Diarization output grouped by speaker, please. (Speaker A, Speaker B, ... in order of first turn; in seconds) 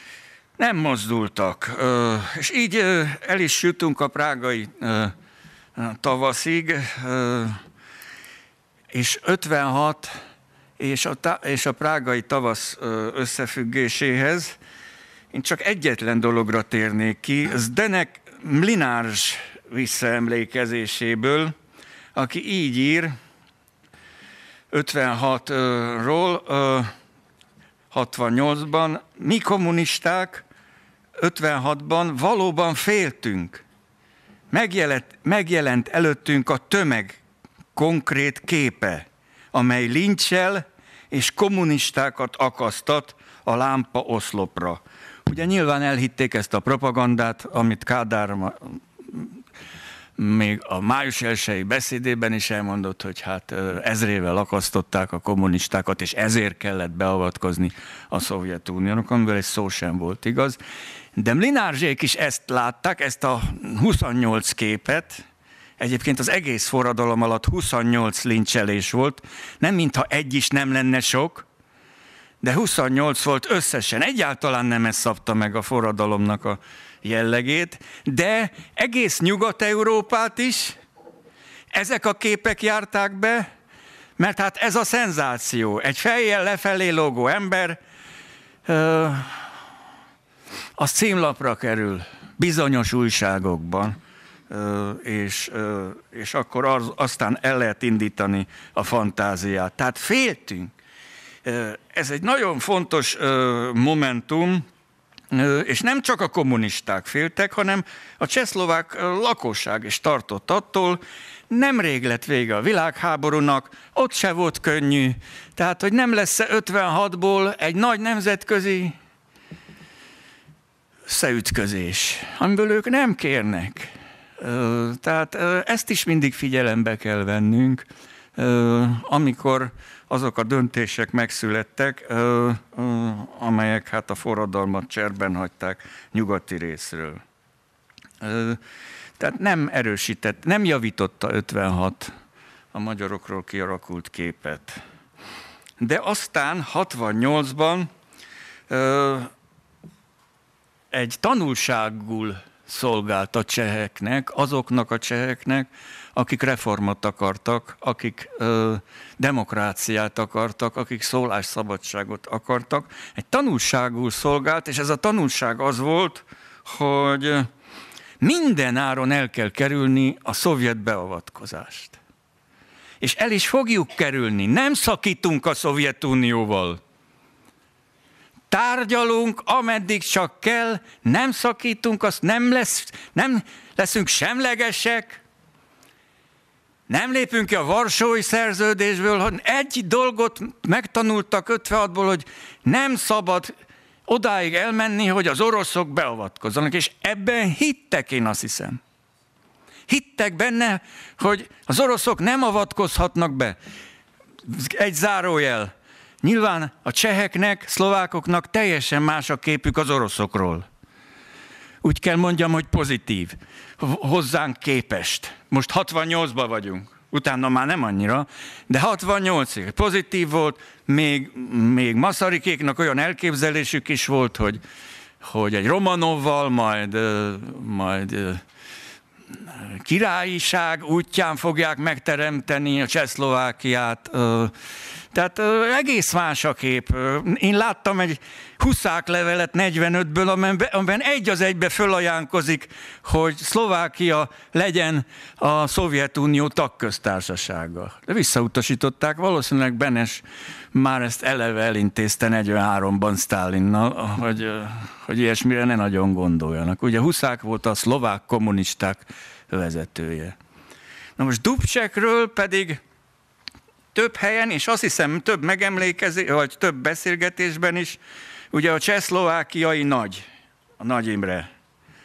Speaker A: 0.6-5.1, 5.8-7.6, 8.9-10.1, 10.8-14.6, 15.3-21.5, 22.1-23.1, 24.7-26.9, 27.9-30.4, 31.2-33.6, 34.5-37.2, 37.7-49.3, 50.2-60.6, 61.1-65.2, 65.8-71.5, 72.4-80.8, 81.7-83.5, 84.2-87.8, 88.7-89.5, 90.8-94.0, 94.5-100.7, 101.4-104.6, 105.3-119.0, 121.1-127.8, 128.3-137.2, 138.2-138.6, 139.2-142.1, 142.7-144.8, 145.8-147.9, 148.7-149.3, 150.9-167.5, 168.2-172.0, 173.0-176.8, 178.5-185.2, 186.9-193.5, 194.1-198.8, 199.9-203.6, 204.4-205.7, 206.2-210.7, 211.8-224.6, 225.2-228.4, 229.5-234.5, 235.1-260.4, 261.2-262.8, 263.9-268.0, 268.5-270.2, 270.8-271.5